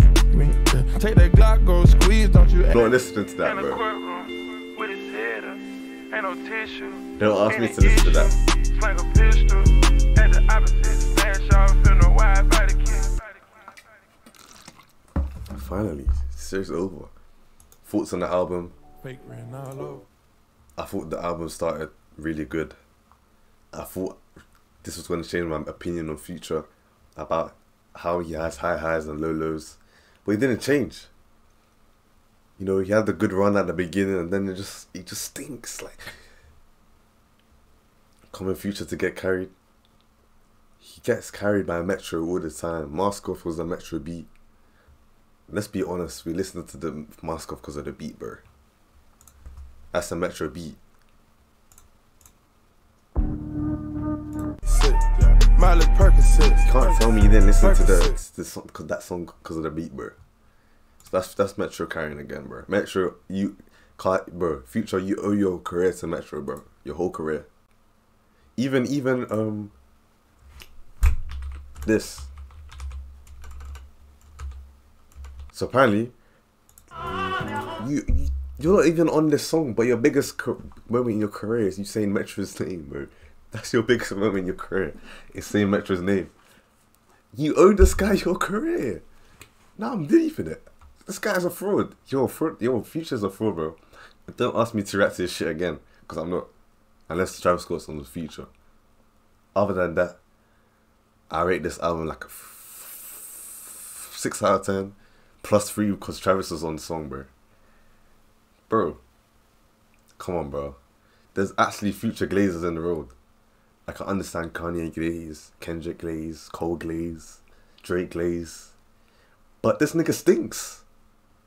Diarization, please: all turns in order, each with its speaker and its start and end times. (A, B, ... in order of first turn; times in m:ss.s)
0:00.3-0:13.4 A
0:02.7-0:03.8 B
0:07.2-0:08.3 B
0:15.5-0:17.1 B
0:17.9-0:18.8 B
0:19.0-0:20.0 A
0:20.8-0:22.8 B
0:23.7-0:24.2 B
0:24.8-0:31.1 B
0:32.6-0:36.1 B
0:38.3-0:39.5 B
0:40.8-0:44.3 B
0:45.5-0:48.4 B
0:49.9-0:50.8 B
0:54.6-0:58.2 A
0:56.6-1:00.2 B
1:01.0-1:07.5 B
1:08.6-1:09.7 B
1:11.8-1:12.3 B
1:15.5-1:16.1 B
1:17.8-1:26.3 B
1:27.3-1:29.0 B
1:29.8-1:36.5 B
1:37.1-1:38.5 B
1:39.6-1:40.2 B
1:41.3-1:47.3 B
1:48.7-1:49.0 B
1:50.2-1:50.8 B
1:51.4-1:53.1 B
1:53.9-1:58.7 B
1:59.6-2:00.8 B